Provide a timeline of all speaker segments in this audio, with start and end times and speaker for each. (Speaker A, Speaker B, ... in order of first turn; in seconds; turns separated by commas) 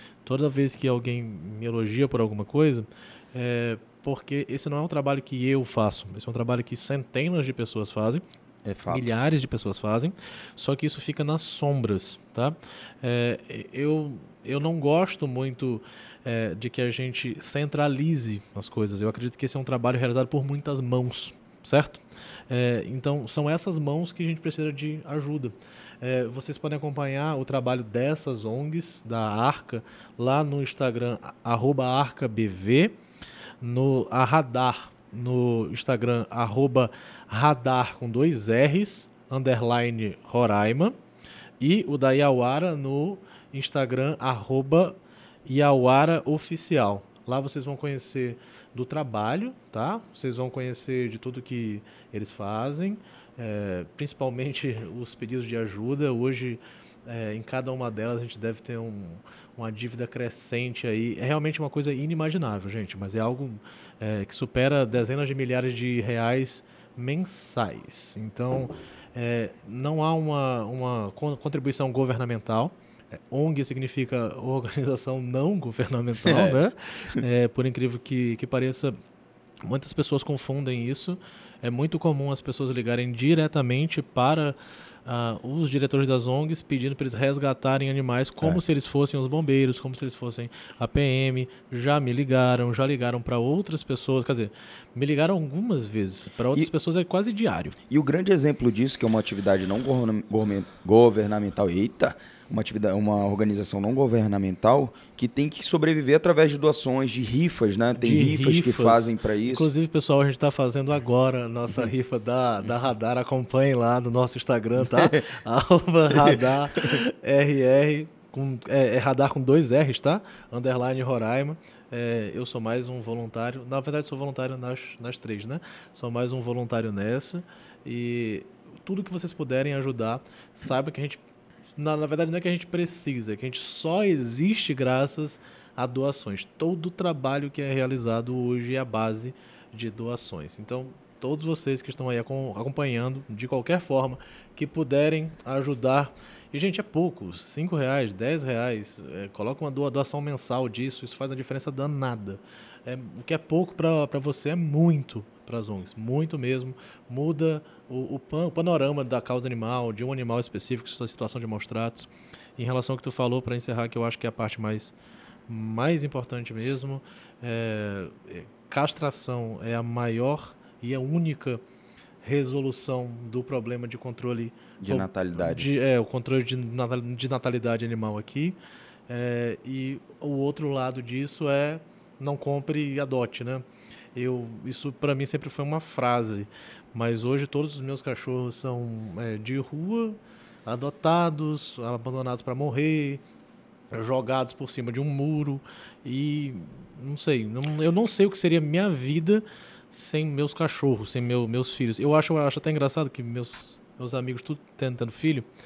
Speaker A: 0.2-8.2, Speaker B: 8.6-9.2, Speaker A: 8.9-32.9, Speaker A: 33.6-40.9, Speaker A: 41.6-79.0, Speaker B: 76.2-76.5, Speaker A: 79.6-97.8, Speaker B: 97.9-109.7, Speaker A: 108.0-131.2, Speaker B: 114.8-115.2, Speaker B: 116.1-117.0, Speaker A: 131.8-164.9, Speaker A: 165.5-171.6, Speaker A: 172.2-178.6, Speaker B: 174.8-175.7, Speaker A: 179.1-183.6, Speaker A: 184.1-193.2, Speaker A: 193.9-205.5